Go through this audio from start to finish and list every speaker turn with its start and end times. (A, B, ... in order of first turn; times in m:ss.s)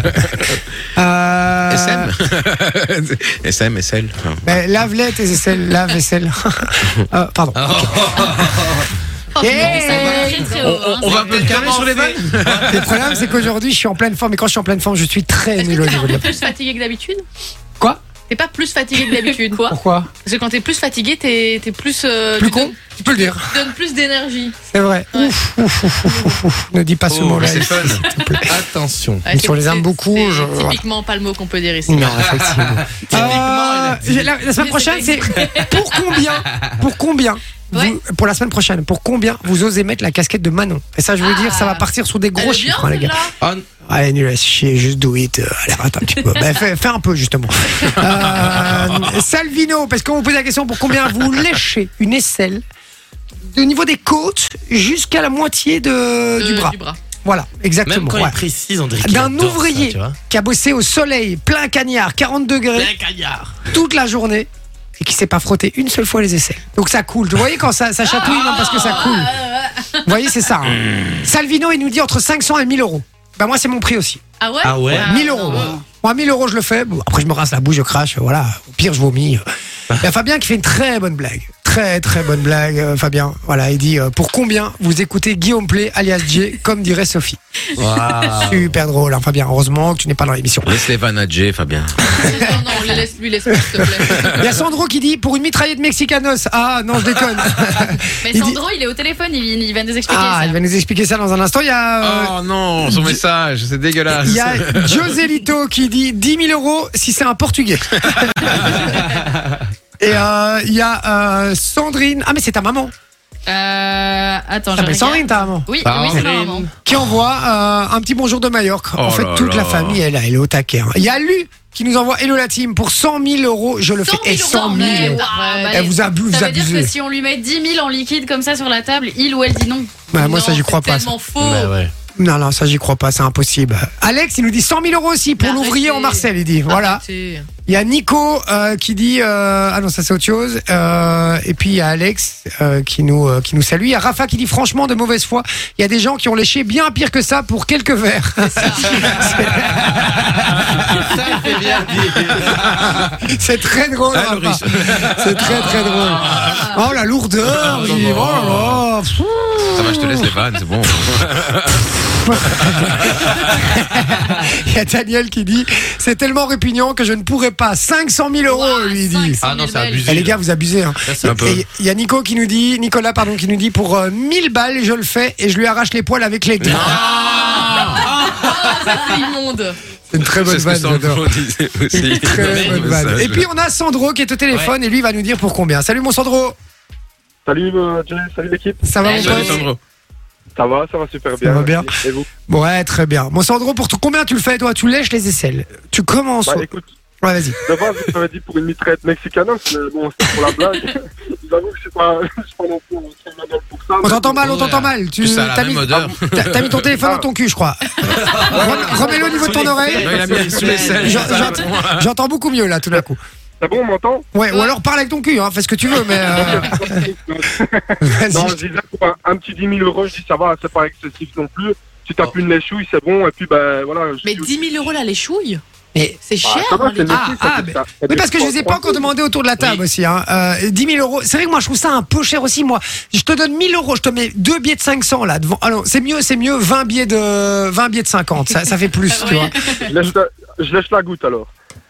0:01.0-0:02.1 A
0:01.7-0:04.6 B
0:04.4-0:08.8 A
0:07.6-0:08.9 C
0:09.3-0:11.7 D
0:09.4-0:10.6 A
0:09.7-0:12.2 E
0:10.6-0:12.8 B
0:11.3-0:16.3 A
0:11.3-0:13.0 C
0:15.6-0:17.2 D
0:16.0-0:16.4 E
0:18.3-0:24.6 D
0:19.7-0:20.1 A
0:22.4-0:23.5 A
0:24.7-0:28.5 A
0:26.0-0:26.4 D
0:27.1-0:27.6 C
0:27.4-0:28.0 B
0:28.4-0:29.3 C
0:29.2-0:32.2 D
0:29.3-0:30.8 A
0:31.9-0:43.2 A
0:32.4-0:34.4 C
0:34.6-0:35.8 D
0:41.2-0:43.3 D
0:43.9-0:52.6 A
0:53.5-0:58.4 A
0:56.4-0:57.0 D
0:57.8-1:00.2 C
0:59.0-1:02.9 A
1:02.7-1:03.7 C
1:03.7-1:09.4 A
1:08.1-1:10.4 D
1:10.0-1:14.2 A
1:14.4-1:15.8 D
1:14.6-1:15.1 C
1:14.9-1:19.4 A
1:15.3-1:15.8 E
1:20.0-1:27.4 A
1:27.8-1:28.7 C
1:28.4-1:30.8 A
1:30.6-1:32.0 B
1:32.2-1:34.4 D
1:34.2-1:38.6 A
1:38.2-1:40.6 E
1:40.1-1:43.2 A
1:42.0-1:45.0 B
1:44.1-1:49.1 A
1:50.0-1:52.9 A
1:53.5-1:56.7 E
1:54.7-1:56.2 A
1:55.8-1:56.7 C
1:56.8-2:06.9 A
1:59.0-2:00.0 B
2:04.0-2:05.8 D
2:04.6-2:10.0 E
2:10.1-2:11.1 A
2:10.1-2:11.7 D
2:11.4-2:11.9 C
2:12.2-2:17.0 A
2:15.4-2:17.5 D
2:17.7-2:31.2 A
2:29.0-2:29.3 C
2:30.9-2:33.0 C
2:32.9-2:40.0 A
2:34.2-2:36.6 B
2:36.5-2:36.8 E
2:37.5-2:38.8 B
2:37.6-2:38.6 C
2:39.8-2:41.7 B
2:42.2-2:49.4 A
2:42.4-2:43.1 B
2:48.5-2:50.2 D
2:49.4-2:50.5 C
2:50.1-2:57.0 A
2:51.0-2:51.5 C
2:51.3-2:51.6 B
2:56.6-2:58.0 B
2:56.8-2:57.1 C
2:57.0-2:59.8 D
2:58.2-2:58.5 C
3:00.1-3:01.3 A
3:00.3-3:03.5 B
3:01.9-3:06.6 A
3:02.5-3:02.8 C
3:07.5-3:09.5 F
3:08.8-3:09.7 A
3:09.1-3:09.4 C
3:09.1-3:09.4 E
3:09.1-3:09.6 D
3:09.4-3:09.8 B
3:10.6-3:12.3 F
3:11.4-3:11.9 A
3:12.5-3:16.7 A
3:16.4-3:16.9 F
3:17.2-3:17.6 A
3:17.6-3:24.4 F
3:24.0-3:33.2 A
3:24.4-3:24.9 C
3:25.2-3:26.9 B
3:28.1-3:28.5 E
3:28.1-3:31.5 C
3:28.6-3:31.6 F
3:30.0-3:32.0 B
3:33.6-3:34.3 F
3:34.3-3:37.1 A
3:36.1-3:44.8 F
3:38.0-3:38.6 A
3:44.2-3:45.6 D
3:45.9-3:46.2 A
3:46.3-3:47.2 D
3:46.4-3:49.1 F
3:47.1-4:00.1 A
3:59.2-3:59.6 D
3:59.4-3:59.9 E
3:59.8-4:01.5 F